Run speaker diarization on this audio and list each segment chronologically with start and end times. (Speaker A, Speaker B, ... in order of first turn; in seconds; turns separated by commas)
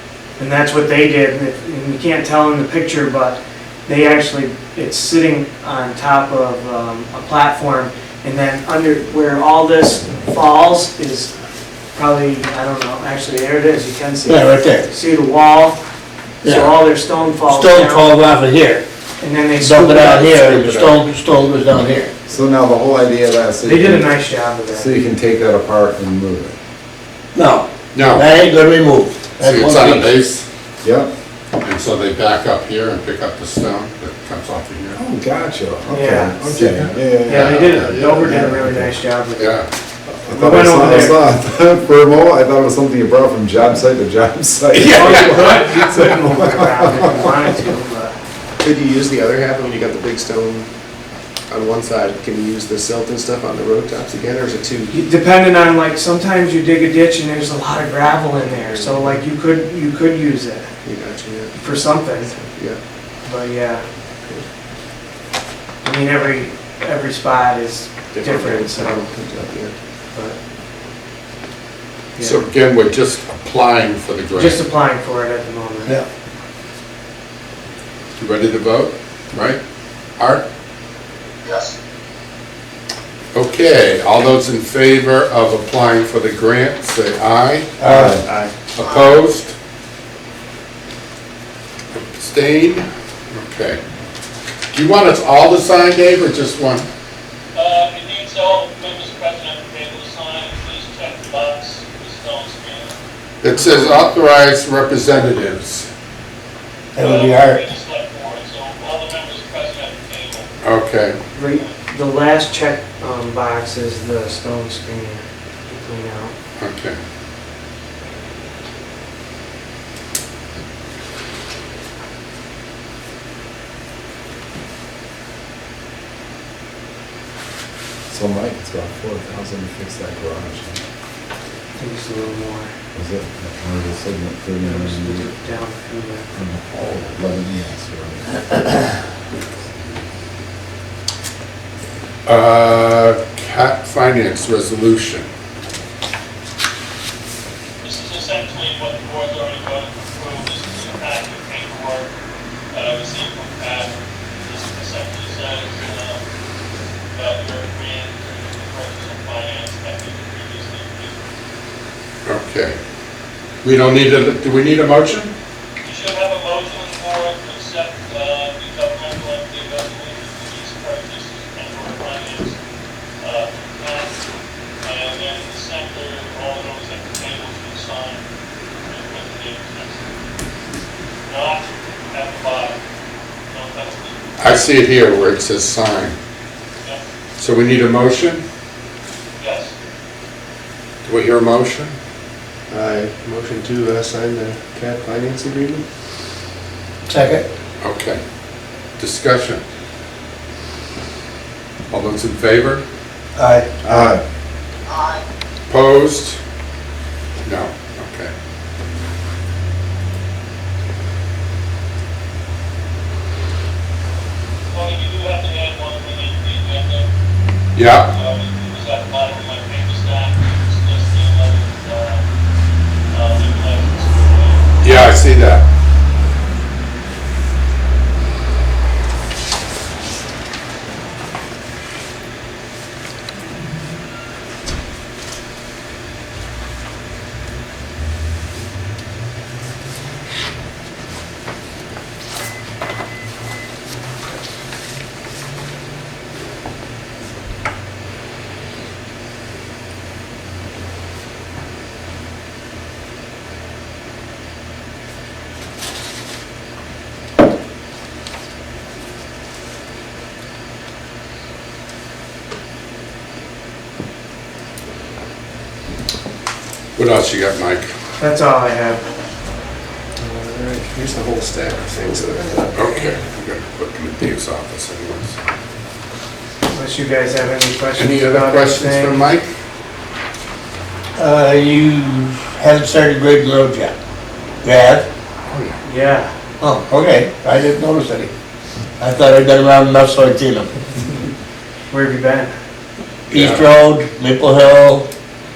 Speaker A: 0.4-11.3, Speaker A: 11.9-15.8, Speaker B: 14.2-14.9, Speaker B: 16.4-16.8, Speaker A: 16.4-18.2, Speaker B: 17.4-18.8, Speaker A: 19.2-20.6, Speaker B: 19.6-22.1, Speaker C: 20.4-21.1, Speaker D: 22.3-24.1, Speaker A: 23.6-24.9, Speaker D: 24.7-26.6, Speaker B: 27.3-30.2, Speaker C: 27.9-28.3, Speaker C: 29.4-30.4, Speaker D: 30.8-31.1, Speaker C: 31.6-35.0, Speaker D: 34.9-39.0, Speaker A: 35.9-36.4, Speaker C: 36.5-38.3, Speaker A: 37.2-39.6, Speaker C: 39.4-39.7, Speaker D: 40.1-47.4, Speaker A: 40.3-41.2, Speaker A: 44.8-48.2, Speaker C: 45.1-45.4, Speaker E: 48.6-50.7, Speaker E: 51.5-55.0, Speaker A: 54.9-60.7, Speaker E: 58.4-59.2, Speaker E: 60.8-61.6, Speaker A: 61.5-62.3, Speaker E: 62.1-62.8, Speaker A: 63.2-63.8, Speaker A: 65.8-69.0, Speaker E: 68.1-69.8, Speaker A: 72.2-72.4, Speaker C: 72.2-74.6, Speaker A: 74.4-76.0, Speaker C: 78.2-79.6, Speaker C: 80.2-80.4, Speaker C: 83.3-87.8, Speaker B: 87.8-88.2, Speaker D: 87.8-88.2, Speaker E: 88.2-88.5, Speaker C: 88.7-89.5, Speaker C: 91.9-93.8, Speaker C: 94.7-96.9, Speaker F: 97.5-103.0, Speaker C: 103.4-105.9, Speaker A: 103.5-104.0, Speaker B: 106.9-107.6, Speaker F: 107.0-110.5, Speaker C: 110.6-111.2, Speaker A: 111.3-116.3, Speaker F: 111.5-111.7, Speaker C: 116.6-117.0, Speaker D: 128.1-130.8, Speaker A: 131.8-132.7, Speaker D: 132.9-135.3, Speaker A: 134.6-136.3, Speaker D: 136.3-139.1, Speaker C: 142.2-145.3, Speaker F: 147.8-152.1, Speaker F: 152.7-156.2, Speaker F: 157.1-161.2, Speaker C: 162.2-162.8, Speaker C: 163.6-165.3, Speaker F: 165.8-172.6, Speaker F: 173.2-174.2, Speaker F: 174.8-178.2, Speaker F: 178.8-180.1, Speaker F: 181.2-182.8, Speaker F: 183.5-184.2, Speaker C: 184.4-186.2, Speaker C: 187.4-188.4, Speaker F: 189.4-189.7, Speaker C: 191.0-192.0, Speaker E: 192.7-195.8, Speaker B: 197.1-197.4, Speaker C: 197.8-198.2, Speaker C: 199.0-199.6, Speaker C: 201.9-202.8, Speaker B: 203.3-203.7, Speaker E: 203.8-204.2, Speaker D: 203.9-204.2, Speaker C: 205.7-206.4, Speaker C: 207.4-208.3, Speaker F: 214.7-217.1, Speaker C: 217.8-218.1, Speaker F: 218.1-222.2, Speaker F: 223.1-224.7, Speaker C: 224.8-225.6, Speaker C: 267.0-267.9, Speaker A: 268.2-269.0, Speaker E: 270.2-272.9, Speaker C: 272.7-275.4, Speaker A: 276.7-279.3, Speaker C: 278.0-279.5, Speaker B: 281.2-283.9, Speaker B: 284.6-285.1, Speaker C: 285.5-285.8, Speaker A: 285.8-286.3, Speaker B: 286.6-288.3, Speaker B: 289.0-290.7, Speaker A: 291.9-292.5, Speaker B: 293.3-295.1, Speaker C: 293.3-293.7